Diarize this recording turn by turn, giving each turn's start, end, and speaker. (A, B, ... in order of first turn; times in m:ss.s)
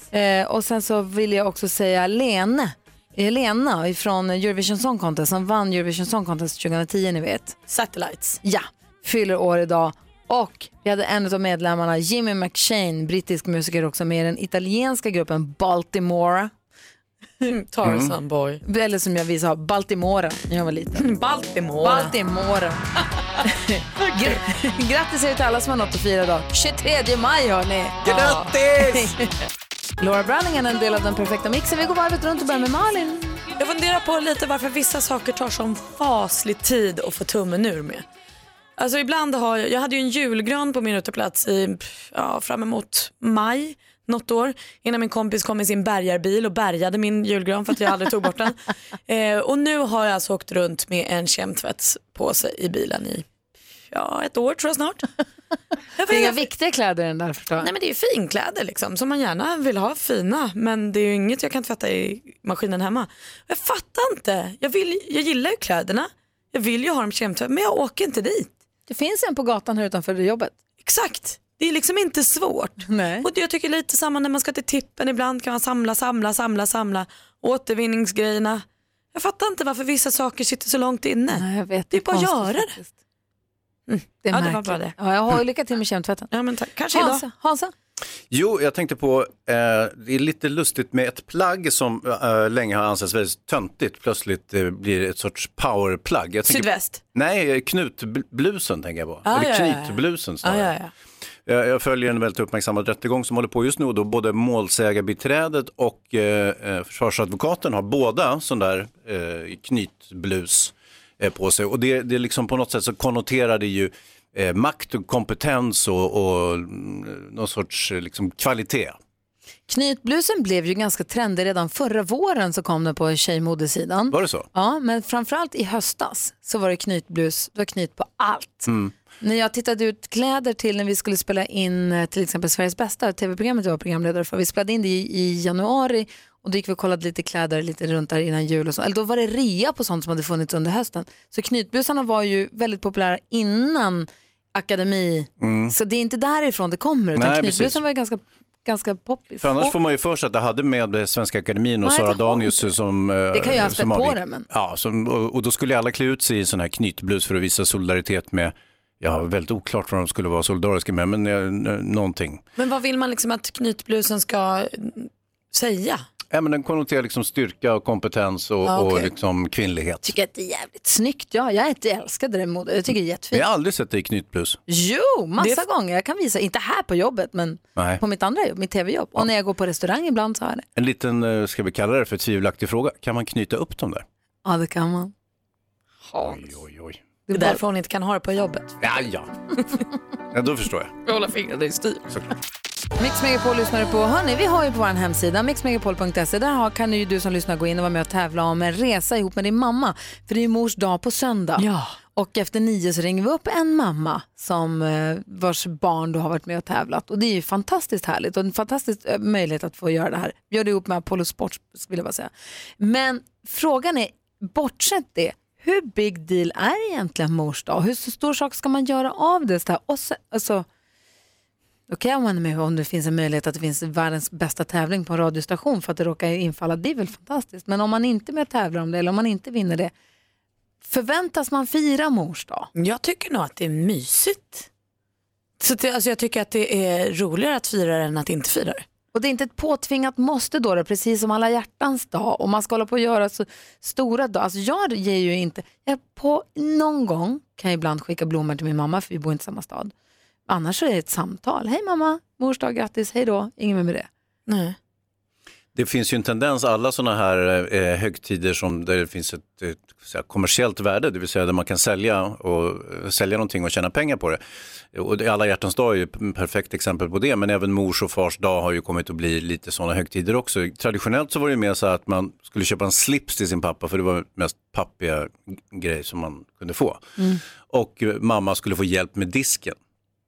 0:00.1-0:07.6 A
0:07.7-0:08.4 B
0:08.4-0:16.5 A
0:17.4-0:18.6 B
0:17.8-0:18.1 C
0:18.6-0:21.0 A
0:21.0-0:22.1 B
0:21.8-0:22.8 A
0:23.4-0:29.2 A
0:28.0-0:29.1 B
0:30.0-0:33.4 A
0:33.6-0:38.0 B
0:38.8-0:53.2 B
0:53.9-0:55.1 B
0:56.0-0:56.4 B
0:56.1-0:57.7 A
0:57.6-1:08.5 B
1:08.9-1:10.5 A
1:10.8-1:22.8 B
1:12.8-1:13.3 A
1:21.3-1:22.9 A
1:23.9-1:25.0 B
1:24.2-1:26.3 A
1:26.3-1:27.2 B
1:26.9-1:27.7 A
1:28.3-1:40.7 C
1:36.5-1:37.0 B
1:39.2-1:40.9 B
1:41.4-1:59.0 C
1:59.7-2:29.7 A
2:04.1-2:04.5 C
2:08.7-2:08.9 C
2:25.4-2:25.7 C
2:27.1-2:27.8 C
2:29.4-2:42.4 C
2:31.8-2:32.7 A
2:33.3-2:34.5 A
2:42.6-2:46.0 B
2:46.3-2:50.1 C
2:48.6-2:49.1 B
2:50.0-2:53.4 A
2:53.3-2:54.6 C
2:54.7-3:00.6 A
2:57.8-2:58.0 C
3:00.8-3:04.0 C
3:04.4-3:05.1 A
3:06.2-3:07.0 C
3:07.3-3:07.6 A
3:07.3-3:08.8 B
3:08.8-3:09.3 C
3:10.3-3:10.9 C
3:11.0-3:12.0 B
3:13.0-3:40.6 A
3:21.6-3:22.0 B
3:41.9-3:49.9 A
3:50.8-3:52.7 A
3:52.7-3:54.7 B
3:55.6-3:58.8 B
3:59.1-4:09.9 A
4:10.5-4:14.1 A
4:14.5-4:14.8 B
4:15.7-4:24.4 C
4:24.9-4:37.0 C
4:37.7-4:39.8 C